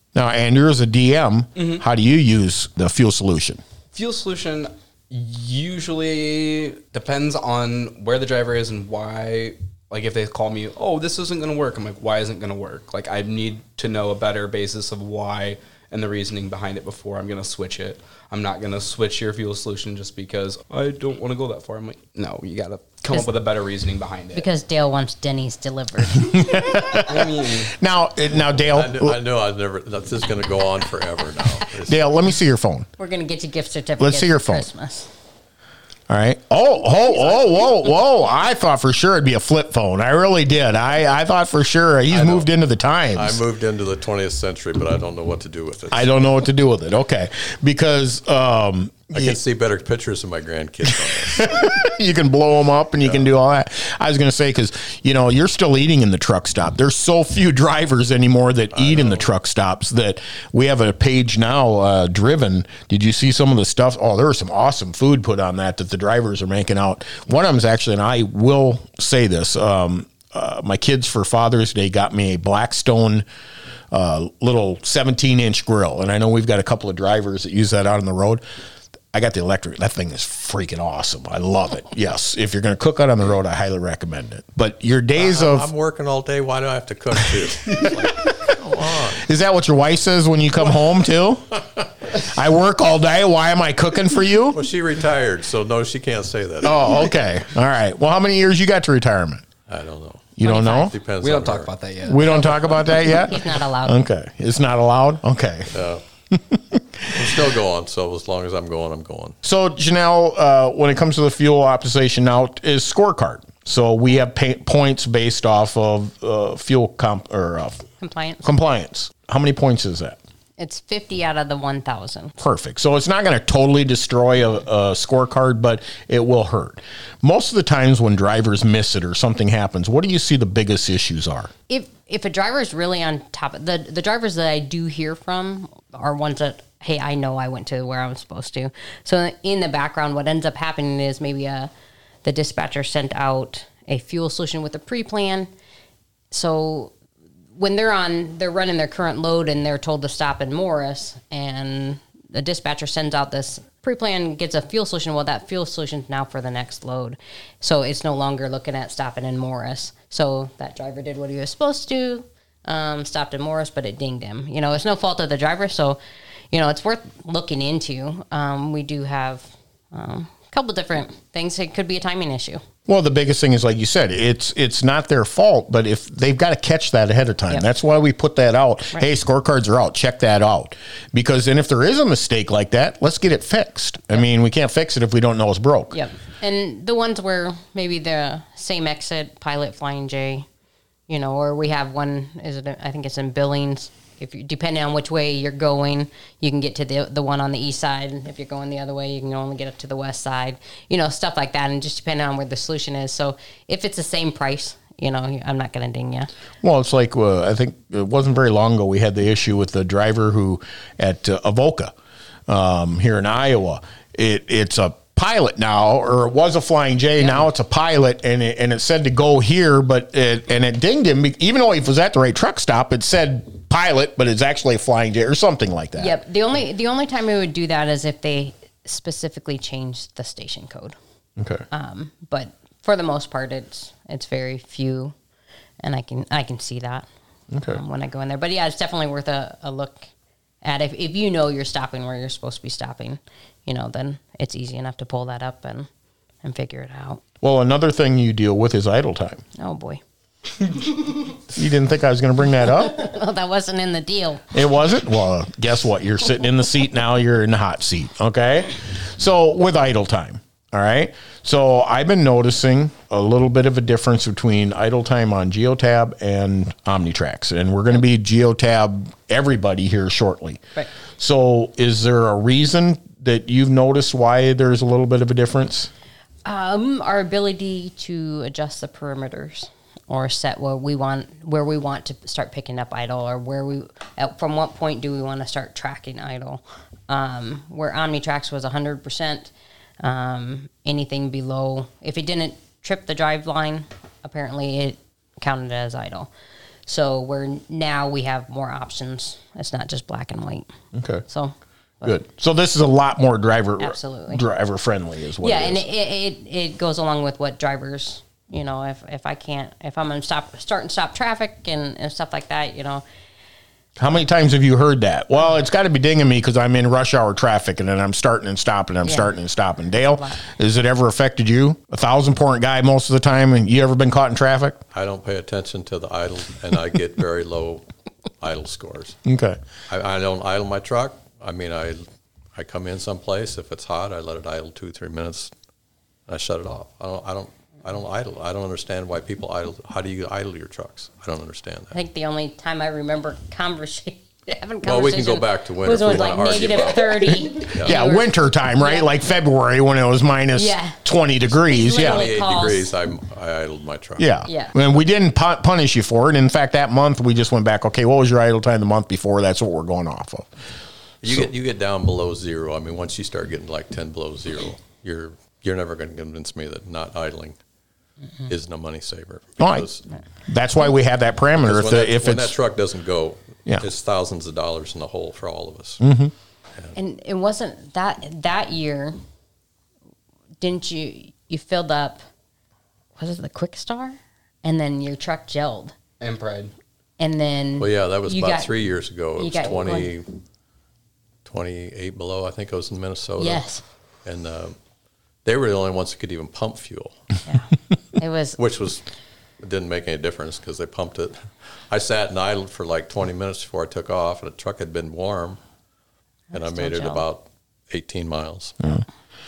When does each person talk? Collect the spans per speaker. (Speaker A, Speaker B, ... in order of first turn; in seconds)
Speaker A: 0.1-3.6, 26.2-29.2, 31.9-32.9, 34.0-34.7, 36.1-43.4, 45.9-49.4, 50.9-73.3, 73.9-78.4, 79.1-85.7, 87.3-88.6, 89.1-91.6, 92.1-94.6, 96.6-99.5, 100.4-101.0, 102.0-105.7, 106.3-107.3, 109.4-117.8, 118.4-120.2, 122.4-131.5, 172.9-185.9, 206.6-211.9, 212.5-226.2, 231.4-231.7, 237.5-237.8, 247.4-249.4, 251.5-253.1, 254.5-270.6, 271.2-275.9, 300.9-301.2, 302.0-305.9, 314.0-324.8, 329.2-329.6, 347.8-352.3, 354.2-360.5, 369.6-369.9, 370.5-372.6, 376.0-376.3
Speaker B: 1.6-1.8, 3.9-24.5, 27.1-27.7, 101.2-103.0, 386.2-386.7
Speaker C: 24.4-26.6, 33.0-35.1, 100.4-100.9, 103.1-104.0, 118.0-118.5, 120.6-122.3, 131.7-141.7, 142.2-145.5, 146.3-146.9, 147.6-166.0, 166.5-172.6, 185.9-190.5, 191.1-206.3, 217.2-217.5, 226.0-231.0, 231.7-235.2, 235.8-237.1, 237.6-240.1, 240.6-245.9, 246.4-247.2, 249.6-250.0, 252.8-254.4, 276.4-296.3, 296.9-300.7, 301.3-302.1, 303.8-304.4, 305.4-313.0, 319.0-319.3, 320.1-320.4, 341.9-349.1, 350.6-351.0, 351.6-352.9, 354.5-354.8, 377.0-379.2, 380.6-382.2, 383.2-385.9, 387.2-388.7, 389.4-390.1, 393.4-393.8, 397.5-398.6, 406.5-407.2
Speaker D: 28.6-32.0, 42.1-42.5, 43.1-46.2, 49.1-51.7, 53.0-53.3, 58.7-59.3, 85.2-89.2, 94.5-97.0, 99.7-101.7, 105.7-106.0, 107.1-109.4, 324.9-327.9, 328.4-329.2, 329.9-332.0, 332.6-335.5, 336.3-342.0, 344.8-347.9, 351.9-354.3, 361.2-367.6, 368.5-370.1, 371.6-376.0, 387.8-390.3, 391.5-393.6, 394.2-394.8, 395.4-397.2, 398.6-399.0, 399.6-405.6, 406.5-408.8